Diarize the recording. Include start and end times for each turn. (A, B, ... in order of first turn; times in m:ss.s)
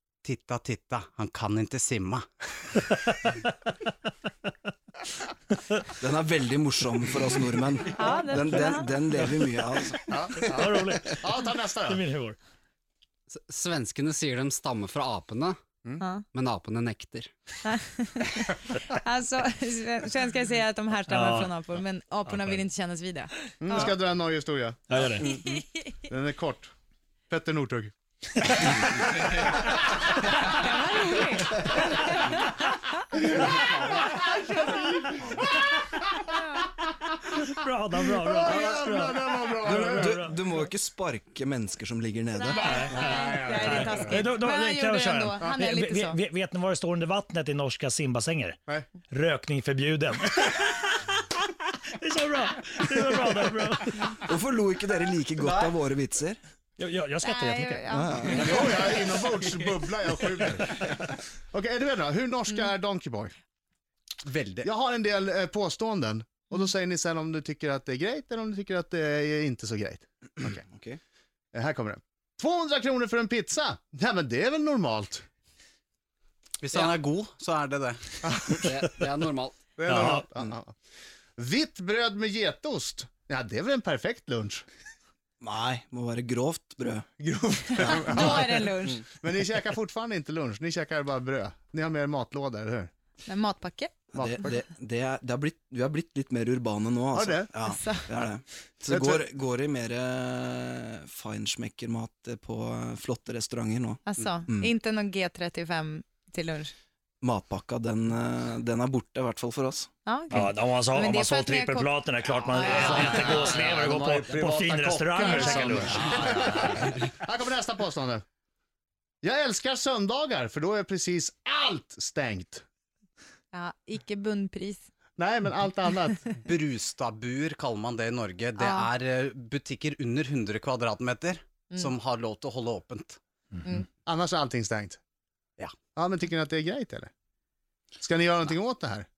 0:00.2-0:02.3 A
0:06.0-0:10.1 B
0:08.0-0:08.8 C
0:10.1-0:12.0 D
0:10.4-0:11.3 E
0:11.8-0:12.4 E
0:13.3-0:15.6 F
0:16.3-0:17.3 F
0:17.6-0:23.9 C
0:21.1-0:21.6 E
0:22.3-0:22.6 E
0:23.6-0:24.8 D
0:24.9-0:25.4 E
0:25.2-0:25.9 C
0:26.1-0:26.7 D
0:27.3-0:27.9 D
0:28.6-0:28.8 E
0:28.6-0:29.4 D
0:30.5-0:32.4 C
0:33.4-0:36.0 D
0:37.5-0:40.6 E
0:38.2-0:40.2 D
0:38.4-0:38.8 B
0:39.6-0:42.7 B
0:42.5-0:46.2 C
0:42.5-0:51.1 E
0:43.1-0:44.2 D
0:52.0-0:54.2 E
0:54.3-0:56.4 B
0:56.8-0:57.9 E
0:57.2-0:58.7 C
0:57.9-0:58.6 B
0:58.4-1:00.8 D
1:01.5-1:03.3 D
1:04.2-1:04.7 A
1:04.6-1:10.6 D
1:10.4-1:11.0 B
1:11.5-1:15.2 D
1:16.6-1:18.0 A
1:18.2-1:18.7 D
1:18.6-1:19.6 F
1:19.8-1:20.7 D
1:19.9-1:20.3 E
1:21.4-1:24.6 D
1:25.4-1:27.1 B
1:27.2-1:32.9 D
1:27.9-1:29.0 C
1:33.3-1:33.9 C
1:34.1-1:34.5 D
1:34.2-1:44.7 B
1:37.1-1:37.5 D
1:37.6-1:38.1 C
1:38.9-1:39.2 D
1:44.1-1:46.7 C
1:47.2-1:49.9 B
1:50.0-1:53.4 C
1:50.3-1:56.2 E
1:52.6-1:53.7 A
1:52.8-1:58.2 D
1:55.2-1:56.0 C
1:59.2-2:02.6 D
2:03.5-2:04.9 C
2:05.2-2:06.2 D
2:06.4-2:13.2 A
2:08.6-2:08.9 C
2:14.1-2:15.0 D
2:16.0-2:17.1 D
2:18.0-2:19.1 D